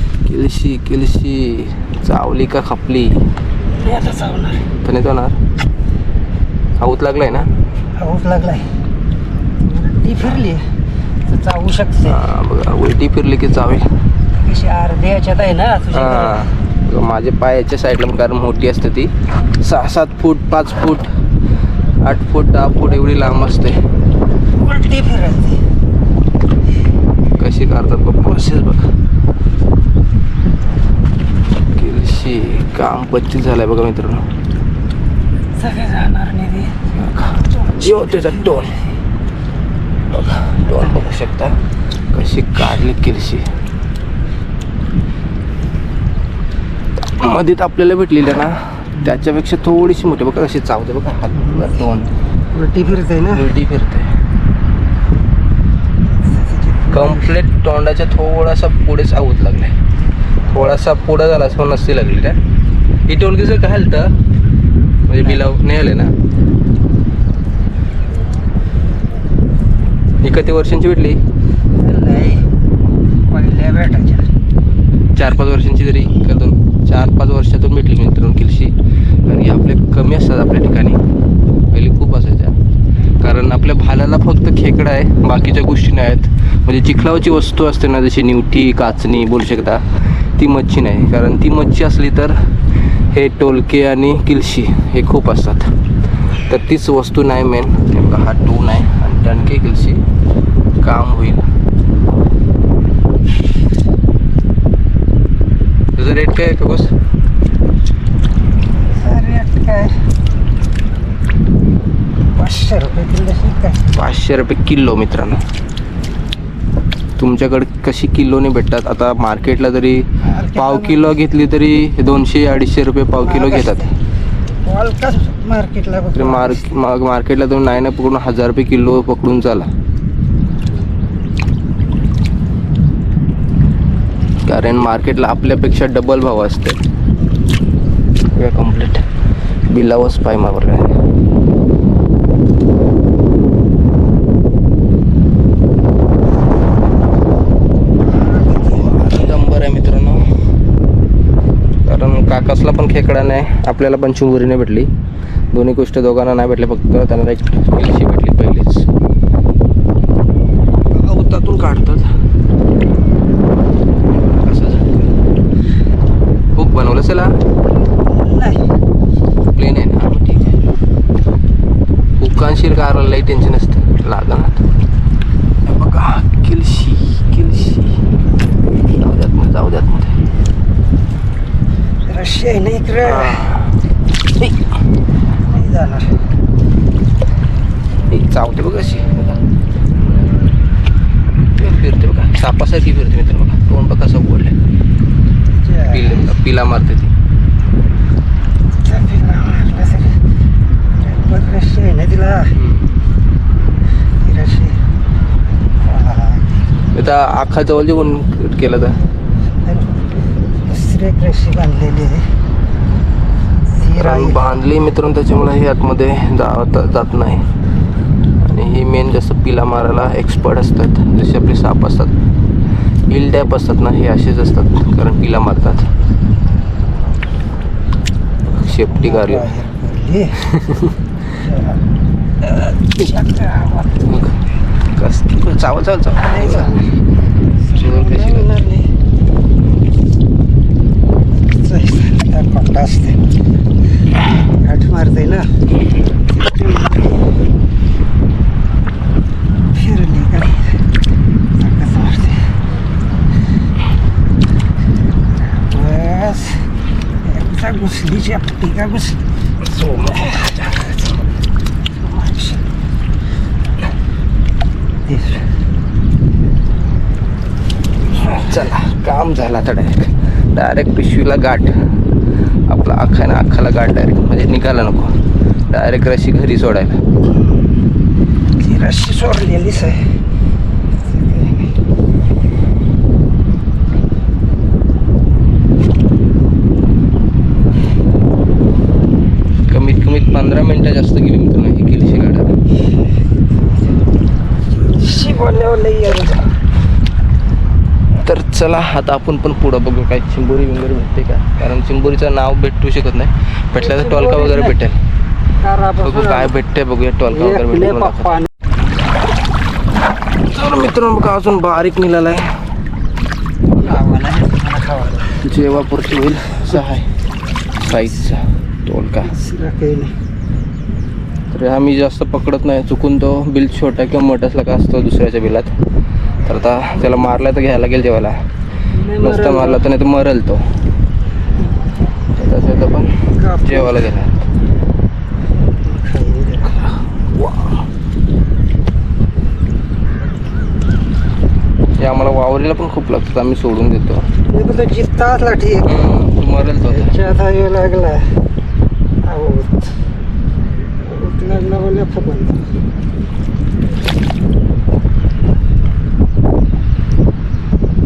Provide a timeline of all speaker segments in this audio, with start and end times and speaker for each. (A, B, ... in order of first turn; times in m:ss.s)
0:00.2-0:03.2 A
0:03.7-0:04.7 B
0:04.8-0:05.4 A
0:06.8-0:07.5 A
0:08.0-0:08.7 B
0:09.6-0:10.6 B
0:11.2-0:12.3 B
0:12.0-0:13.9 A
0:14.4-0:16.5 B
0:15.9-0:21.1 A
0:22.0-0:23.8 A
0:24.5-0:25.6 B
0:27.4-0:28.9 A
0:31.7-0:34.2 A
0:35.6-0:36.8 B
0:36.9-0:38.8 A
0:37.5-0:38.8 B
0:40.1-0:41.6 A
0:42.1-0:43.4 A
0:47.0-0:52.1 A
0:51.4-0:51.7 B
0:52.5-0:53.5 B
0:53.3-0:54.1 A
0:56.1-0:57.4 B
0:56.9-0:59.8 A
1:00.5-1:02.4 A
1:03.1-1:04.1 A
1:05.1-1:06.1 A
1:10.2-1:11.2 A
1:11.8-1:12.5 B
1:13.3-1:14.3 B
1:15.1-1:21.0 A
1:21.7-1:22.5 A
1:23.2-1:32.4 A
1:33.1-1:35.7 A
1:36.4-1:40.0 A
1:40.8-1:41.4 A
1:46.0-1:46.9 A
1:49.0-1:49.9 B
1:52.3-1:53.9 B
1:53.9-1:55.4 A
1:57.2-2:03.8 A
2:00.2-2:01.2 B
2:03.2-2:03.9 B
2:04.6-2:06.8 B
2:06.1-2:09.7 A
2:14.4-2:16.8 A
2:18.3-2:19.0 A
2:19.7-2:20.9 A
2:28.1-2:29.1 B
2:28.6-2:30.3 A
2:31.8-2:34.9 A
2:35.5-2:38.9 A
2:40.9-2:42.1 A
2:44.1-2:45.1 A
2:46.5-2:47.3 A
2:48.1-2:48.7 B
2:49.5-2:50.6 A
2:52.2-2:54.6 A
2:55.6-2:58.0 A
2:59.0-3:00.2 A
3:02.1-3:03.5 B
3:03.0-3:03.8 A
3:05.5-3:06.2 B
3:08.1-3:09.4 A
3:11.6-3:14.6 A
3:15.5-3:16.3 B
3:15.9-3:17.1 A
3:18.8-3:20.2 B
3:20.9-3:22.6 B
3:22.5-3:22.9 A
3:24.2-3:24.8 B
3:25.8-3:26.7 B
3:26.9-3:29.0 A
3:29.6-3:30.1 B
3:30.6-3:32.3 B
3:33.7-3:34.4 B
3:33.9-3:37.4 A
3:38.4-3:42.1 A
3:43.1-3:45.9 A
3:48.4-3:49.5 A
3:48.9-3:50.4 B
3:50.4-3:51.0 A
3:51.3-3:51.8 B
3:52.4-3:54.2 B
3:54.0-3:54.4 A
3:54.9-3:56.8 A
3:56.1-3:57.0 B
3:57.6-3:58.9 B
3:57.7-3:58.5 A
4:01.5-4:03.2 B
4:04.6-4:05.5 B
4:06.3-4:07.2 B
4:09.7-4:10.8 B
4:11.6-4:12.4 B
4:15.4-4:16.7 B
4:17.2-4:19.2 B
4:19.7-4:20.9 A
4:20.0-4:20.3 B
4:22.0-4:22.7 B
4:25.1-4:25.5 B
4:28.1-4:31.7 A
4:32.7-4:35.1 A
4:35.7-4:37.0 A
4:37.2-4:37.7 B
4:38.6-4:40.2 B
4:41.0-4:41.7 B
4:49.7-4:52.5 A
4:53.5-4:54.0 B
4:54.7-4:56.6 B
4:58.2-5:05.0 A
5:03.8-5:04.8 B
5:05.6-5:06.5 B
5:06.0-5:08.4 A
5:07.5-5:08.5 B
5:10.5-5:12.6 A
5:13.8-5:15.4 B
5:15.4-5:17.1 A
5:17.8-5:19.4 A
5:19.2-5:20.1 B
5:21.5-5:25.7 A
5:26.4-5:28.4 A
5:28.9-5:29.8 B
5:29.2-5:30.6 A
5:32.3-5:34.5 A
5:33.4-5:34.1 B
5:35.8-5:36.8 B
5:37.3-5:37.8 A
5:42.0-5:44.3 A
5:44.5-5:46.1 B
5:45.8-5:47.2 A
5:46.8-5:48.3 B
5:49.2-5:50.0 B
5:51.0-5:52.6 B